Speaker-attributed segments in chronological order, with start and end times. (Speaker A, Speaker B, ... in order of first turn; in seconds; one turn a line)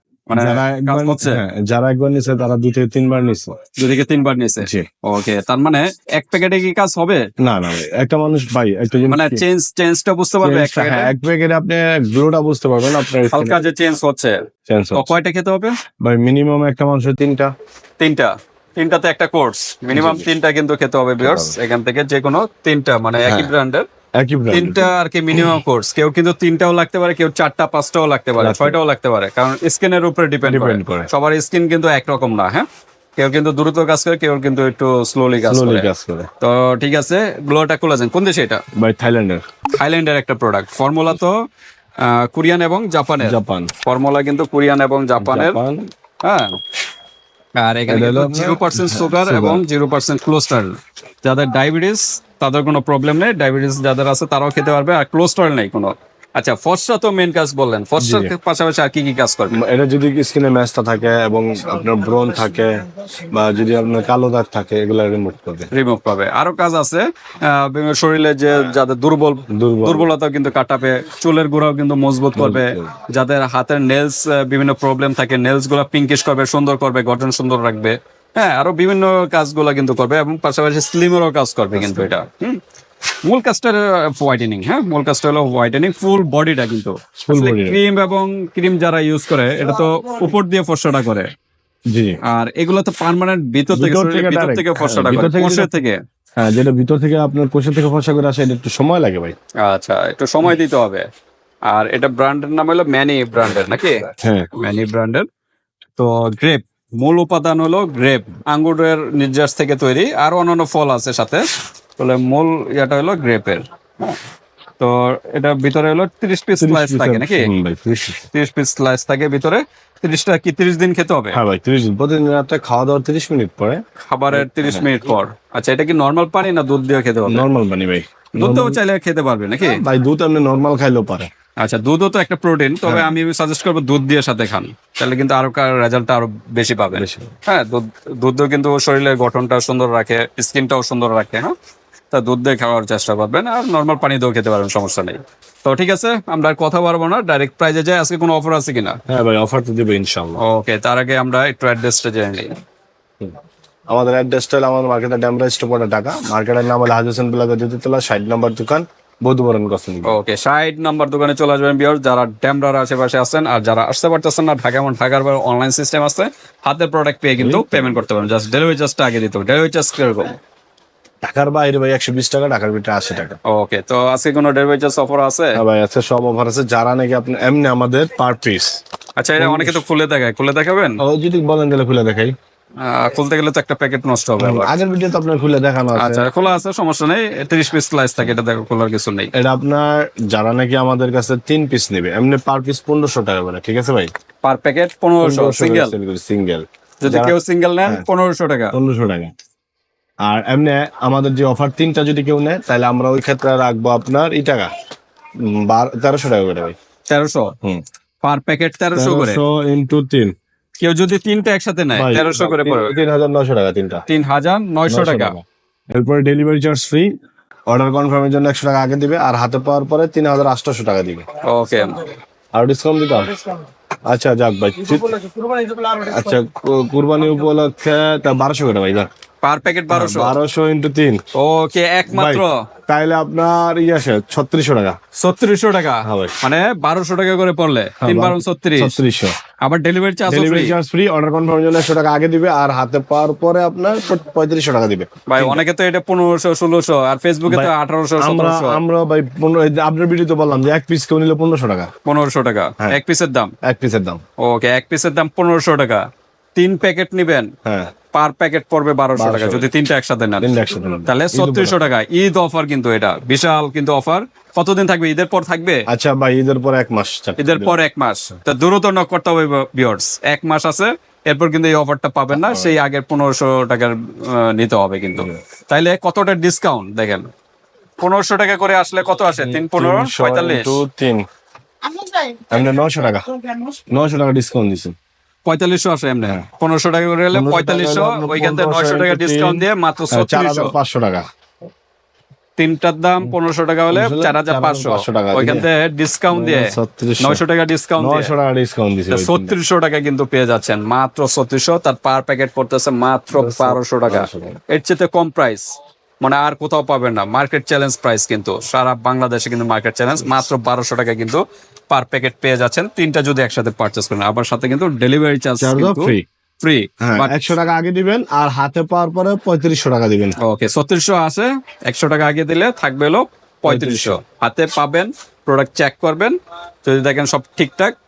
Speaker A: 0.3-1.4
Speaker B: 0.3-3.6
Speaker A: 3.8-7.2
Speaker B: 4.6-4.9
Speaker B: 7.4-9.4
Speaker A: 9.1-11.1
Speaker B: 10.4-13.6
Speaker A: 13.3-14.4
Speaker B: 14.7-15.1
Speaker A: 14.9-15.8
Speaker B: 16.0-17.5
Speaker A: 18.0-23.9
Speaker B: 19.9-20.3
Speaker B: 21.2-21.6
Speaker B: 23.2-23.5
Speaker B: 24.2-24.9
Speaker A: 24.5-32.6
Speaker B: 28.4-28.8
Speaker B: 30.4-31.1
Speaker A: 33.2-35.9
Speaker B: 35.4-36.3
Speaker A: 36.4-38.6
Speaker B: 38.8-39.4
Speaker A: 39.7-41.4
Speaker A: 42.0-45.6
Speaker B: 43.2-43.7
Speaker B: 45.2-45.9
Speaker A: 46.2-46.6
Speaker A: 47.6-59.6
Speaker B: 47.9-49.6
Speaker B: 58.0-58.3
Speaker B: 59.5-65.7
Speaker A: 65.7-82.6
Speaker B: 69.5-70.1
Speaker B: 72.3-73.0
Speaker B: 81.7-82.1
Speaker A: 83.2-91.3
Speaker B: 87.2-87.8
Speaker B: 91.9-92.2
Speaker A: 92.3-96.0
Speaker B: 93.7-95.7
Speaker B: 96.4-99.3
Speaker A: 99.6-101.0
Speaker A: 101.7-104.0
Speaker B: 104.2-104.5
Speaker A: 104.6-105.3
Speaker A: 106.0-111.4
Speaker A: 112.0-114.2
Speaker A: 114.8-117.5
Speaker B: 116.6-118.2
Speaker A: 118.3-121.4
Speaker B: 121.3-124.9
Speaker A: 124.1-127.4
Speaker B: 127.3-128.8
Speaker A: 128.3-129.8
Speaker B: 129.6-131.3
Speaker A: 131.6-141.5
Speaker B: 136.9-137.3
Speaker A: 142.1-149.0
Speaker B: 149.1-150.4
Speaker A: 150.4-152.5
Speaker B: 153.9-160.1
Speaker A: 160.1-170.3
Speaker B: 167.4-168.0
Speaker B: 171.2-173.4
Speaker A: 173.5-175.6
Speaker B: 175.6-178.8
Speaker A: 179.2-181.0
Speaker B: 179.4-179.8
Speaker B: 181.0-182.3
Speaker A: 182.8-184.7
Speaker B: 184.4-186.2
Speaker A: 186.0-189.3
Speaker B: 189.3-194.1
Speaker A: 194.4-195.9
Speaker B: 195.2-198.0
Speaker A: 197.0-198.7
Speaker B: 198.7-199.3
Speaker B: 200.2-204.7
Speaker B: 205.4-206.7
Speaker A: 207.1-207.5
Speaker A: 208.2-209.4
Speaker B: 208.9-210.3
Speaker A: 210.8-212.9
Speaker B: 211.9-214.0
Speaker A: 214.1-215.3
Speaker B: 214.9-217.1
Speaker B: 217.7-221.2
Speaker A: 221.4-222.1
Speaker B: 222.5-223.4
Speaker B: 224.1-225.3
Speaker B: 225.9-229.1
Speaker A: 229.4-230.3
Speaker B: 229.9-231.2
Speaker A: 231.3-232.6
Speaker B: 232.1-235.0
Speaker A: 235.2-238.9
Speaker B: 236.1-236.4
Speaker B: 238.0-239.3
Speaker A: 239.6-240.8
Speaker B: 240.3-245.6
Speaker A: 245.3-248.8
Speaker B: 247.5-251.9
Speaker A: 252.1-253.5
Speaker B: 253.6-254.2
Speaker A: 254.4-256.0
Speaker A: 256.6-257.5
Speaker A: 258.1-260.5
Speaker B: 259.1-259.7
Speaker B: 260.4-261.8
Speaker A: 261.1-265.8
Speaker B: 265.9-267.8
Speaker A: 267.4-277.3
Speaker B: 272.3-272.7
Speaker A: 278.0-280.7
Speaker B: 279.3-281.2
Speaker B: 282.5-284.9
Speaker A: 285.4-290.7
Speaker B: 287.3-291.2
Speaker A: 292.6-298.3
Speaker B: 293.9-295.7
Speaker B: 296.3-297.4
Speaker B: 298.0-299.5
Speaker A: 299.1-317.4
Speaker B: 303.3-304.6
Speaker B: 315.6-316.2
Speaker B: 317.0-320.4
Speaker A: 320.4-327.9
Speaker B: 323.6-324.2